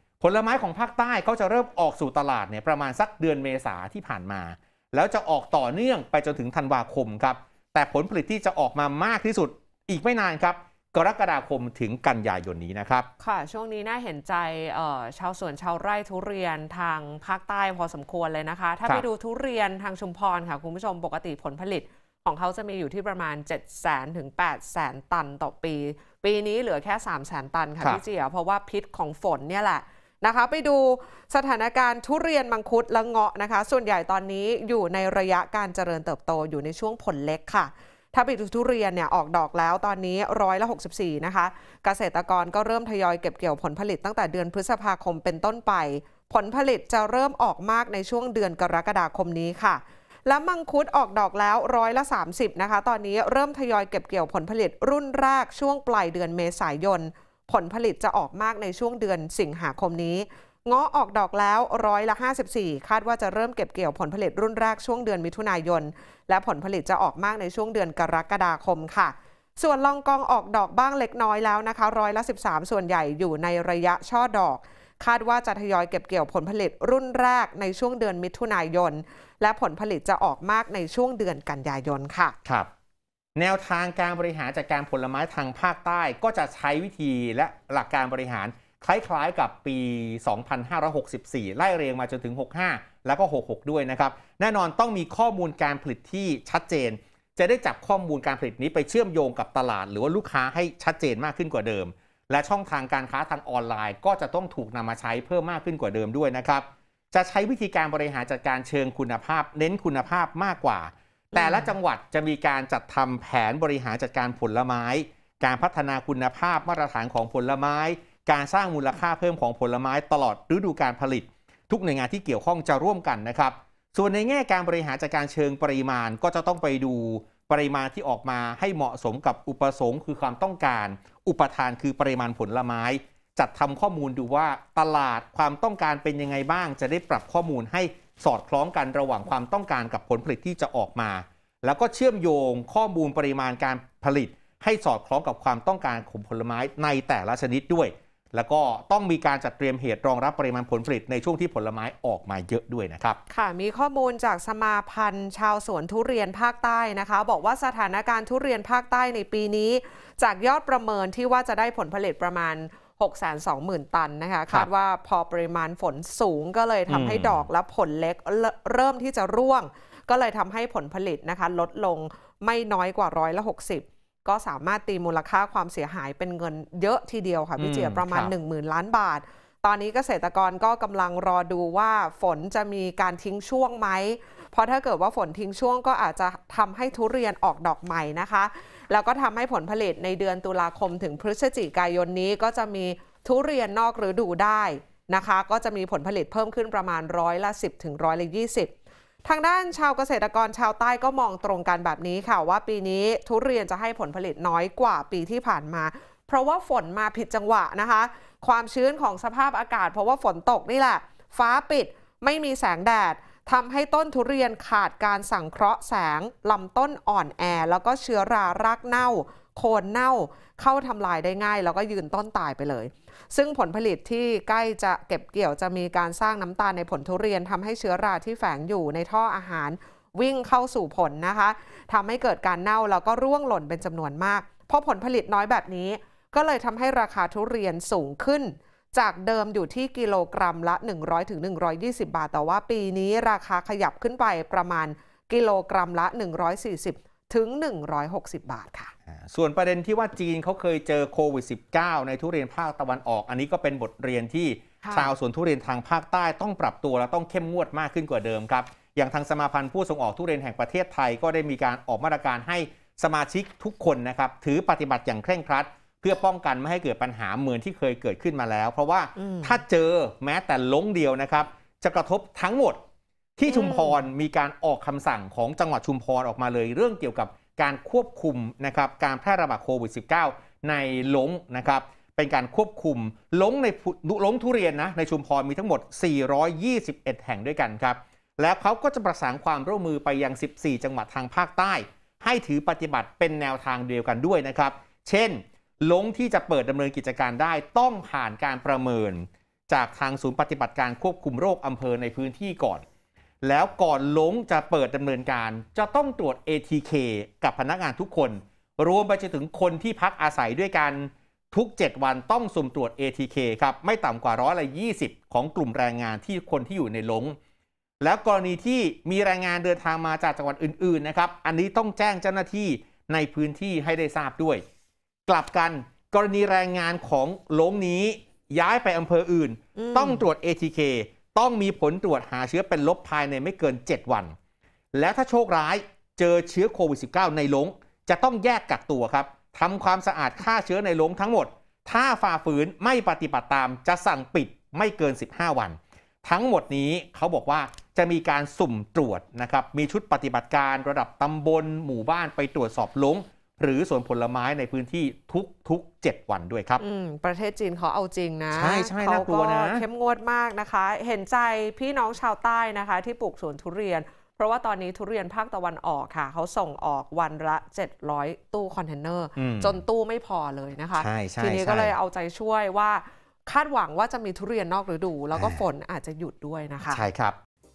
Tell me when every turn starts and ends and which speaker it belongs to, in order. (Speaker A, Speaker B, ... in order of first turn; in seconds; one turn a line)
Speaker A: 0.2-13.1
Speaker B: 13.2-82.3
Speaker A: 83.3-153.2
Speaker B: 111.3-111.7
Speaker B: 153.3-198.7
Speaker A: 166.9-167.5
Speaker A: 177.6-178.3
Speaker B: 199.2-248.9
Speaker A: 249.1-272.8
Speaker B: 254.8-255.1
Speaker B: 269.2-269.6
Speaker A: 273.4-302.8
Speaker B: 273.5-274.0
Speaker A: 303.4-317.4
Speaker A: 318.0-324.6
Speaker A: 325.3-334.3
Speaker B: 329.8-330.2
Speaker A: 334.9-356.8
Speaker B: 356.8-377.0
Speaker A: 358.5-359.8
Speaker A: 369.4-369.8
Speaker A: 371.0-371.9
Speaker A: 375.3-375.6
Speaker A: 376.9-377.4